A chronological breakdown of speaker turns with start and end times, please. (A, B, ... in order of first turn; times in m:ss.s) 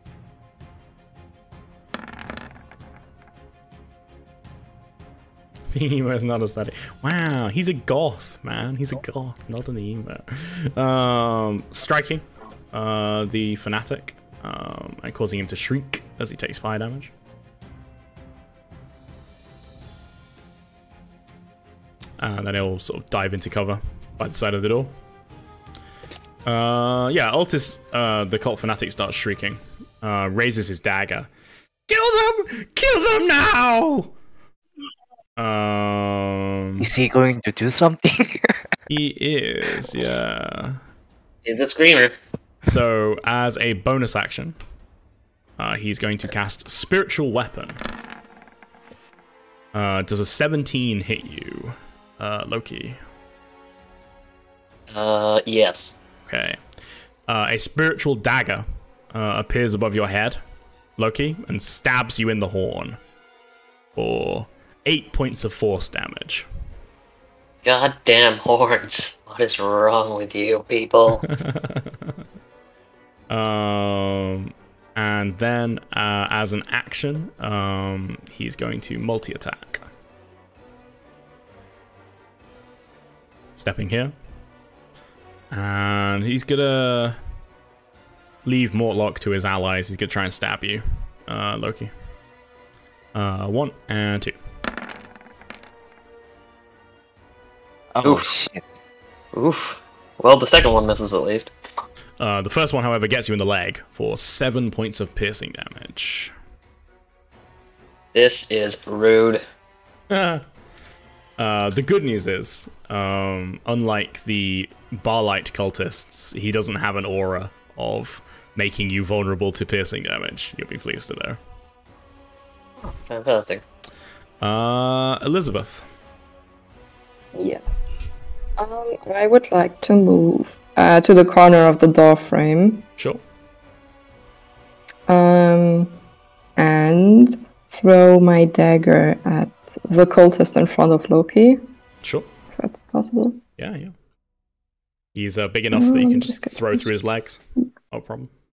0:05.7-0:17.1 A
0:22.2-0:24.9 A
0:26.4-0:31.3 A
0:31.9-0:34.1 A
0:35.4-0:36.9 A
0:36.8-0:38.6 B
0:38.9-0:40.8 A
0:41.4-0:42.1 C
0:42.6-0:44.6 A
0:45.6-0:47.8 A
0:49.7-0:53.0 A
0:54.9-0:56.0 C
0:56.2-0:56.6 A
0:57.3-1:00.4 A
1:01.0-1:03.0 A
1:04.0-1:06.5 A
1:07.6-1:11.3 C
1:11.5-1:11.9 A
1:13.3-1:19.9 A
1:23.6-1:24.1 A
1:25.5-1:27.2 A
1:28.4-1:31.9 A
1:33.1-1:34.4 A
1:37.9-1:38.7 B
1:39.3-1:41.5 C
1:42.2-1:46.3 A
1:48.1-1:49.4 C
1:50.1-1:50.4 A
1:51.4-2:01.4 A
2:02.8-2:03.6 C
2:04.4-2:05.8 A
2:07.3-2:07.8 D
2:08.6-2:12.8 D
2:15.1-2:16.0 D
2:16.6-2:21.6 D
2:22.0-2:22.3 A
2:22.5-2:23.4 D
2:23.6-2:23.9 A
2:25.1-2:28.3 A
2:25.7-2:26.9 D